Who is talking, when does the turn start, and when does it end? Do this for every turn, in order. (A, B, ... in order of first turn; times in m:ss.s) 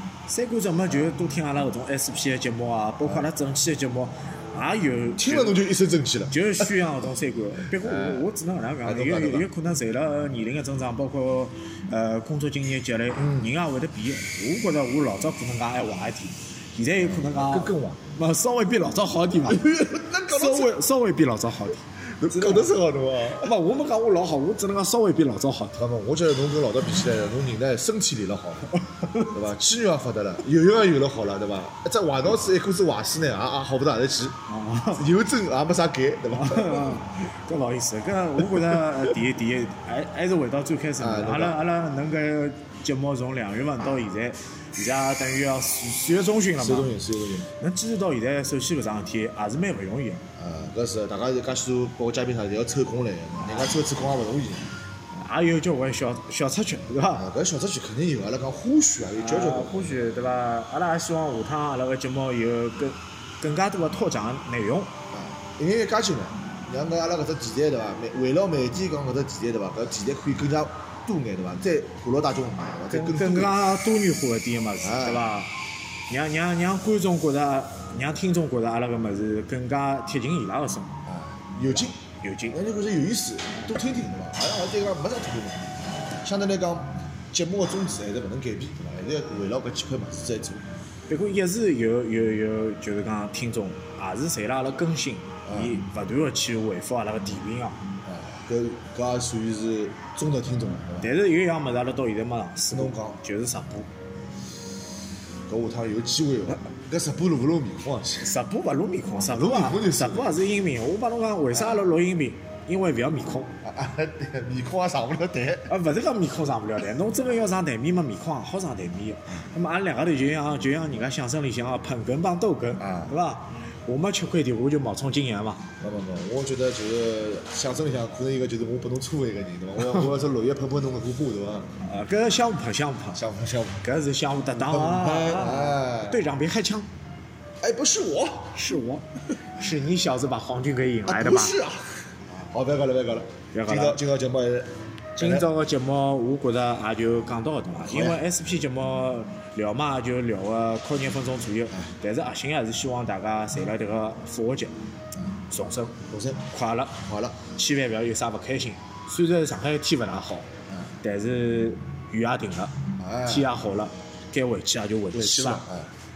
0:00.3-0:05.6 A
0:00.9-0:01.1 B
0:03.0-0:03.3 B
0:05.2-0:06.7 B
0:06.3-0:22.7 A
0:07.7-0:08.3 B
0:08.8-0:09.5 B
0:13.2-0:13.5 B
0:17.0-0:18.0 B
0:19.5-0:20.8 B
0:22.2-0:23.5 B
0:23.4-0:25.8 A
0:25.8-0:34.4 B
0:28.8-0:29.4 A
0:34.5-0:35.0 A
0:34.9-0:37.0 B
0:36.3-0:46.9 A
0:41.0-0:41.6 B
0:46.6-0:47.5 B
0:47.6-0:50.2 A
0:50.4-0:54.7 B
0:53.4-0:53.7 A
0:55.1-0:57.3 A
0:57.1-1:00.0 B
0:59.2-1:04.9 A
1:05.1-1:13.6 B
1:12.9-1:15.6 A
1:14.8-1:15.3 B
1:16.1-1:21.0 A
1:21.1-1:22.0 B
1:21.7-1:22.6 A
1:22.5-1:30.6 B
1:31.1-1:37.8 A
1:35.5-1:35.8 B
1:38.0-1:41.1 B
1:41.0-1:43.9 A
1:42.7-1:43.2 B
1:45.5-1:48.3 B
1:48.2-1:53.5 A
1:49.2-1:50.4 B
1:51.5-1:51.8 B
1:53.6-1:55.7 B
1:55.7-2:05.7 A
2:02.8-2:03.1 B
2:05.8-2:11.7 B
2:11.8-2:13.2 A
2:13.2-2:13.8 B
2:13.8-2:16.9 A
2:14.6-2:16.2 B
2:17.6-2:18.6 B
2:18.5-2:21.6 A
2:21.1-2:25.5 B
2:23.5-2:24.0 A
2:25.2-2:34.8 A
2:27.9-2:28.2 B
2:35.5-2:40.5 A
2:36.1-2:36.4 B
2:37.0-2:37.4 B
2:41.0-2:45.6 A
2:43.0-2:43.5 B
2:45.1-2:45.9 B